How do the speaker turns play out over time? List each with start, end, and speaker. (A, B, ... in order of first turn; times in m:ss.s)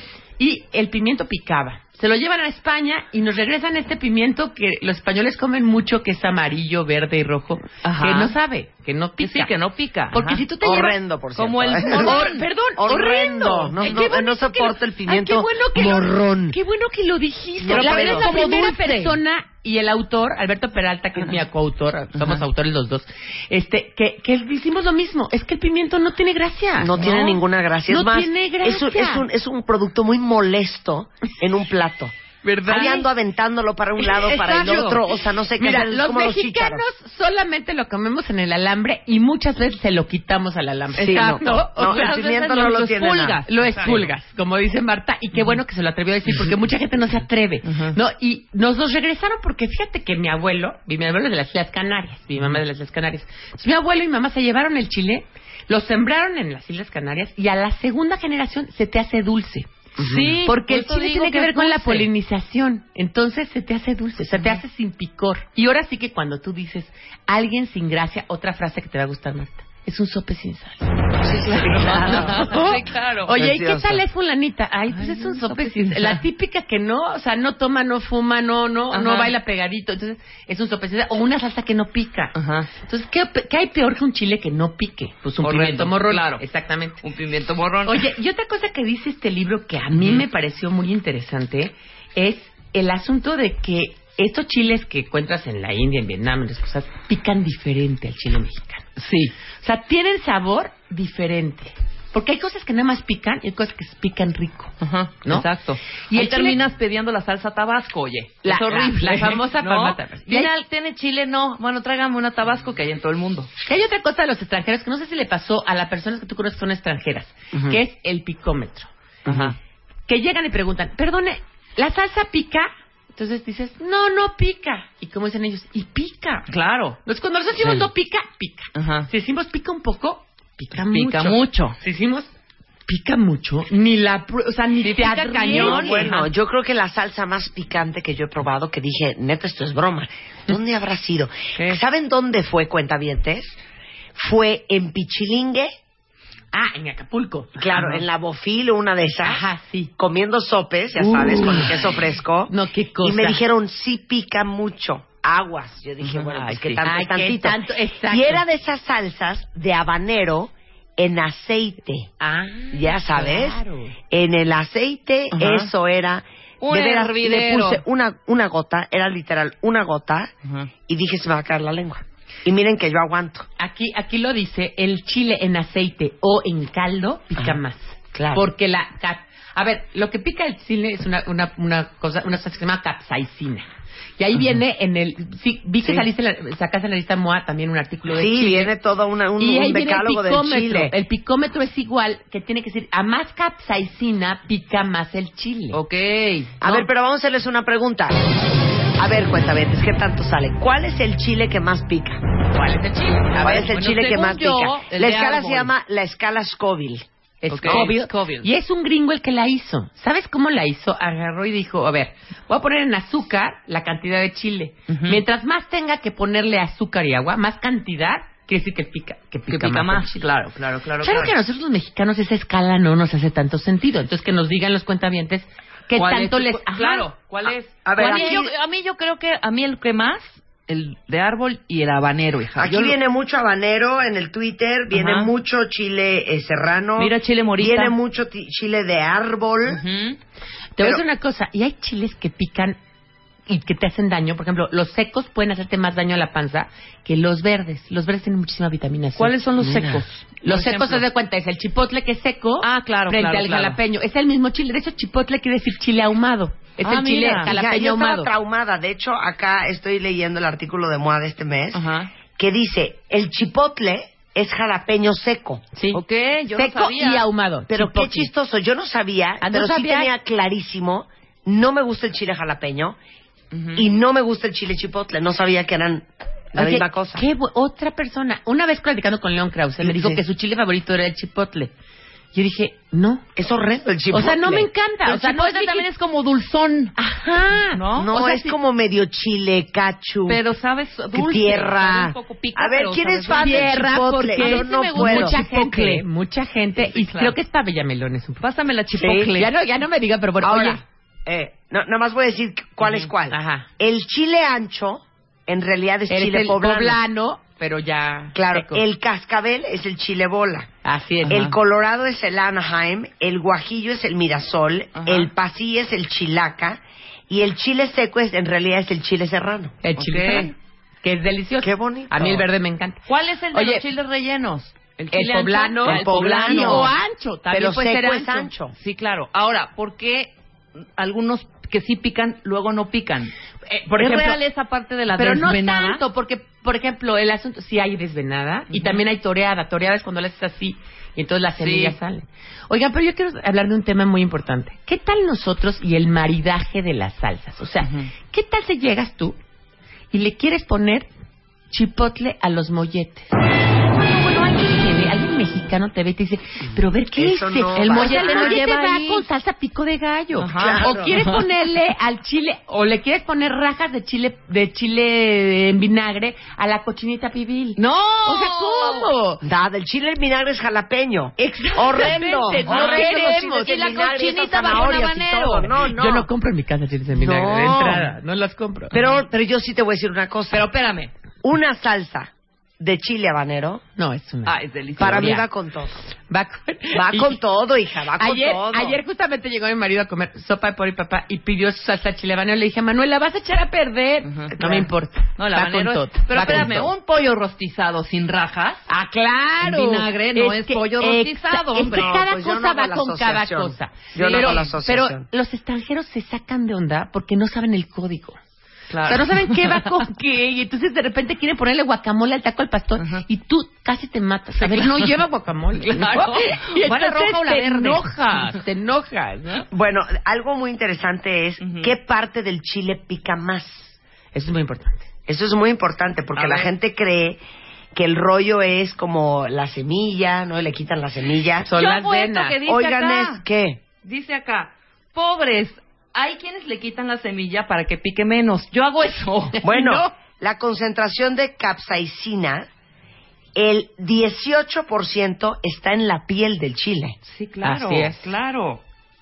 0:00.4-0:09.5 A
0:07.8-0:08.3 B
0:09.2-0:10.4 B
0:10.1-0:11.0 A
0:10.6-0:16.6 C
0:11.4-0:12.4 B
0:11.9-0:27.4 A
0:17.6-0:18.6 C
0:17.7-0:19.2 B
0:26.8-0:32.1 C
0:27.9-0:29.3 A
0:32.4-0:33.0 B
0:32.6-0:33.0 A
0:32.7-0:36.8 C
0:34.2-0:35.0 A
0:34.2-0:35.0 B
0:35.6-0:42.2 A
0:41.0-0:43.4 C
0:41.0-0:44.1 B
0:43.4-0:59.7 A
0:47.6-0:48.0 B
1:00.0-1:00.3 C
1:00.0-1:02.1 B
1:00.4-1:10.9 A
1:11.2-1:12.4 C
1:11.4-1:13.4 B
1:11.8-1:27.0 A
1:13.4-1:14.0 C
1:14.9-1:16.2 B
1:18.9-1:19.3 B
1:22.3-1:22.7 B
1:25.4-1:26.4 B
1:27.0-1:28.1 B
1:27.8-1:38.8 A
1:29.9-1:30.2 B
1:39.0-1:39.3 B
1:39.6-1:45.4 A
1:44.8-1:53.5 B
1:46.1-1:46.6 A
1:48.4-1:50.5 A
1:53.6-1:58.9 A
1:59.2-1:59.5 C
1:59.3-1:59.5 B
2:00.1-2:06.5 A
2:06.5-2:07.0 B
2:07.0-2:12.3 A
2:08.7-2:09.1 B
2:10.7-2:11.8 B
2:12.9-2:16.3 A
2:14.8-2:16.1 B
2:15.5-2:23.6 C
2:24.1-2:25.7 C
2:26.5-2:28.0 A
2:27.6-2:29.5 C
2:29.2-2:29.9 A
2:30.0-2:42.1 C
2:31.0-2:31.9 A
2:32.5-2:33.4 A
2:36.0-2:36.8 B
2:36.8-2:38.4 A
2:42.2-2:44.0 A
2:42.7-2:50.3 C
2:45.3-2:45.7 B
2:46.6-2:47.8 B
2:50.4-2:50.7 B
2:50.9-2:53.4 C
2:53.6-3:08.7 A
2:58.1-2:58.4 C
3:08.1-3:10.9 C
3:09.4-3:15.8 A
3:15.7-3:16.8 B
3:16.6-3:18.2 C
3:19.0-3:22.2 C
3:22.5-3:23.7 A
3:23.4-3:27.0 C
3:23.4-3:25.7 B
3:27.4-3:40.2 A
3:27.5-3:28.5 B
3:27.6-3:27.9 C
3:34.9-3:35.2 B
3:39.5-3:41.4 B
3:41.0-3:47.1 A
3:45.9-3:53.0 B
3:47.8-3:48.5 C
3:48.0-3:48.4 A
3:52.6-3:59.8 C
3:54.9-3:55.3 B
3:57.0-3:57.9 B
3:59.7-4:00.2 B
4:00.8-4:02.8 A
4:03.5-4:09.4 A
4:09.2-4:11.0 B
4:09.6-4:10.0 C
4:10.4-4:18.3 A
4:12.6-4:13.8 B
4:16.8-4:17.5 B
4:17.4-4:21.8 C
4:21.7-4:22.1 B
4:22.4-4:25.6 C
4:25.7-4:26.0 A
4:25.9-4:27.2 B
4:26.5-4:28.3 A
4:27.7-4:33.0 C
4:29.4-4:30.1 A
4:33.5-4:33.8 B
4:33.7-4:37.2 C
4:36.6-4:41.7 A
4:39.8-4:40.2 C
4:42.3-4:43.2 A
4:43.4-4:44.7 C
4:44.1-4:45.8 A
4:45.0-4:46.9 B
4:47.0-4:48.4 A
4:47.7-4:48.4 B
4:48.0-4:50.4 C
4:50.3-4:56.0 B
4:51.1-4:55.4 C
4:53.3-4:58.4 A
4:56.8-4:57.4 B
4:58.4-4:59.5 B
4:59.0-4:59.3 C
4:59.3-5:00.8 A
5:00.4-5:07.0 C
5:03.3-5:03.7 A
5:06.1-5:08.8 A
5:08.3-5:10.7 C
5:10.8-5:11.5 A
5:11.2-5:11.5 B
5:11.3-5:19.8 C
5:14.9-5:15.3 B
5:19.8-5:23.0 A
5:20.0-5:20.5 B
5:21.6-5:22.4 C
5:23.1-5:26.9 B
5:23.5-5:23.8 A
5:25.1-5:28.5 A
5:25.8-5:26.9 C
5:27.5-5:28.7 C
5:28.8-5:33.3 B
5:33.7-5:34.4 A
5:33.9-5:36.0 B
5:35.1-5:49.4 A
5:38.7-5:39.0 B
5:41.6-5:42.0 B
5:47.8-5:48.1 B
5:50.1-5:51.1 A
5:51.7-5:53.3 A
5:53.9-6:09.4 A
5:57.1-5:58.6 C
5:57.8-5:59.2 B
6:00.4-6:01.4 B
6:00.5-6:01.2 C
6:07.8-6:09.1 B
6:09.4-6:16.3 C
6:11.4-6:13.8 A
6:12.6-6:15.8 B
6:15.9-6:19.1 A
6:17.1-6:18.1 C
6:18.9-6:20.7 C
6:20.5-6:21.1 B
6:21.4-6:23.8 C
6:24.0-6:25.4 A
6:24.4-6:25.4 B
6:25.0-6:26.0 C
6:26.3-6:27.4 A
6:26.9-6:29.0 C
6:28.2-6:36.9 A
6:34.2-6:34.8 B
6:35.4-6:38.9 B
6:38.9-6:48.4 A
6:39.6-6:42.1 B
6:41.8-6:45.3 C
6:44.1-6:44.7 B
6:48.9-6:49.9 B
6:49.0-6:59.6 A
6:53.0-6:53.2 B
6:54.6-6:55.2 B
6:55.8-6:58.6 B
6:59.7-7:03.9 C
7:01.6-7:01.9 B
7:04.3-7:05.0 A
7:05.3-7:07.4 C
7:06.3-7:06.7 B
7:07.9-7:11.7 C
7:11.6-7:12.6 A
7:11.7-7:13.4 B
7:12.6-7:13.8 C
7:14.0-7:19.6 B
7:19.6-7:20.1 A
7:19.6-7:22.7 C
7:23.5-7:27.2 C
7:27.2-7:28.8 B
7:27.6-7:28.3 A